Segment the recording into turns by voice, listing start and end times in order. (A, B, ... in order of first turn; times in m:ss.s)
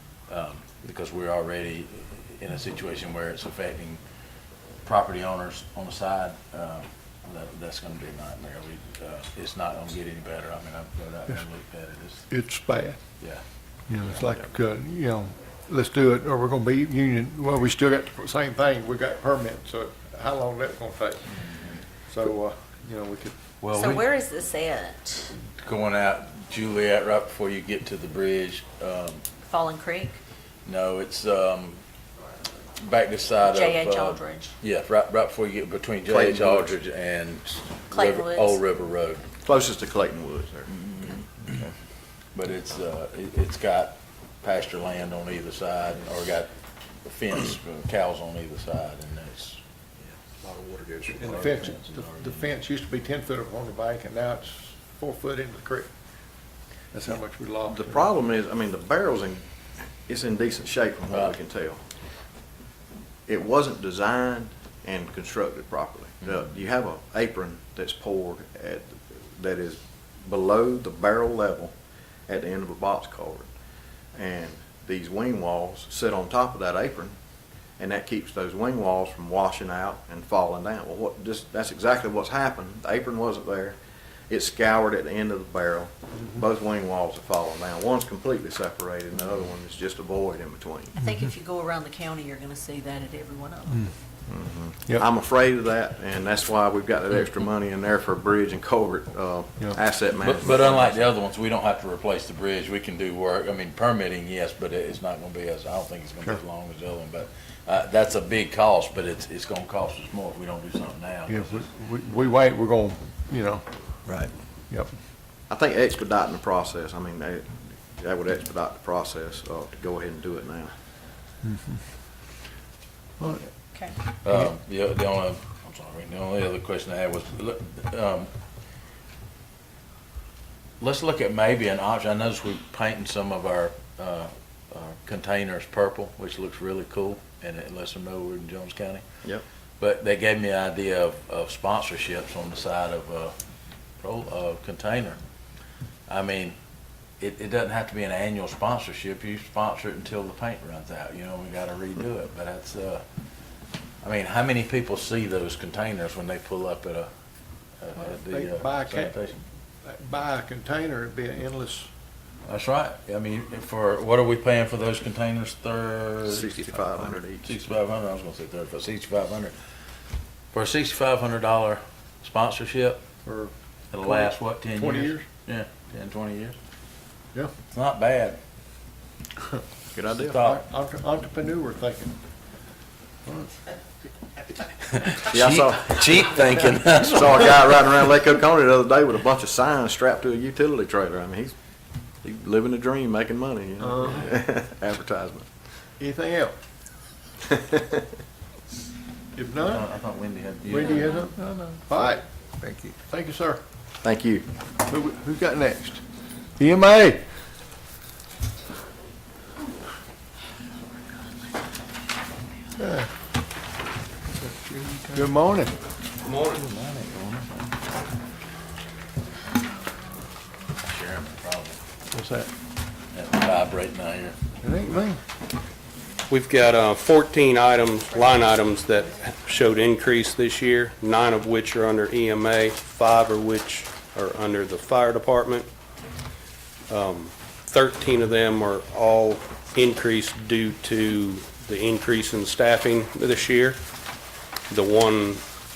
0:00.3-0:04.0 A
0:04.8-0:12.3 A
0:12.3-0:13.0 B
0:13.9-0:21.2 B
0:21.4-0:21.8 A
0:22.1-0:23.3 B
0:23.6-0:24.0 A
0:23.7-0:25.3 C
0:25.5-0:29.2 A
0:29.4-0:30.2 C
0:30.6-0:31.8 A
0:32.8-0:39.2 A
0:33.4-0:34.5 C
0:36.0-0:36.7 D
0:37.9-0:38.6 C
0:39.4-0:41.1 D
0:40.7-0:41.2 A
0:42.3-0:46.5 A
0:47.0-0:49.6 A
0:50.3-0:52.5 A
0:51.2-0:55.9 B
0:56.9-0:58.0 B
0:57.7-0:59.4 D
1:00.1-1:01.8 D
1:03.3-1:11.7 D
1:12.3-1:13.5 D
1:14.1-1:17.1 D
1:17.8-1:23.8 D
1:24.3-1:30.9 D
1:31.0-1:33.9 C
1:34.3-1:41.0 D
1:40.2-1:51.6 A
1:51.3-1:53.6 B
1:55.5-2:00.7 D
2:03.2-2:03.5 B
2:04.2-2:08.3 A
2:10.8-2:19.0 A
2:19.8-2:23.3 A
2:24.0-2:25.2 A
2:26.1-2:26.6 A
2:27.2-2:33.0 A
2:34.0-2:37.1 A
2:37.8-2:39.4 A
2:38.0-2:39.2 B
2:39.8-2:41.9 B
2:42.4-2:46.8 A
2:46.3-2:47.5 D
2:47.4-2:49.5 A
2:50.5-2:53.0 A
2:53.2-2:53.5 B
2:53.9-2:56.6 A
2:54.0-2:55.2 B
2:57.7-2:58.4 A
2:59.9-3:00.4 D
3:00.2-3:00.6 A
3:00.3-3:02.1 B
3:03.2-3:03.5 B
3:04.9-3:07.7 A
3:05.3-3:11.5 D
3:12.2-3:15.5 D
3:13.8-3:14.3 B
3:16.0-3:16.5 B
3:17.5-3:18.0 D
3:19.3-3:19.9 B
3:19.6-3:21.3 A
3:20.7-3:23.6 B
3:24.0-3:24.5 D
3:24.8-3:26.0 B
3:26.6-3:27.2 B
3:32.8-3:33.1 B
3:35.1-3:35.7 B
3:36.2-3:36.6 E
3:36.3-3:37.7 A
3:40.8-3:41.8 A
3:42.1-3:42.5 B
3:43.1-3:44.4 A
3:44.6-3:45.2 B
3:46.3-3:55.7 E
3:56.9-4:03.8 E
4:04.7-4:05.4 E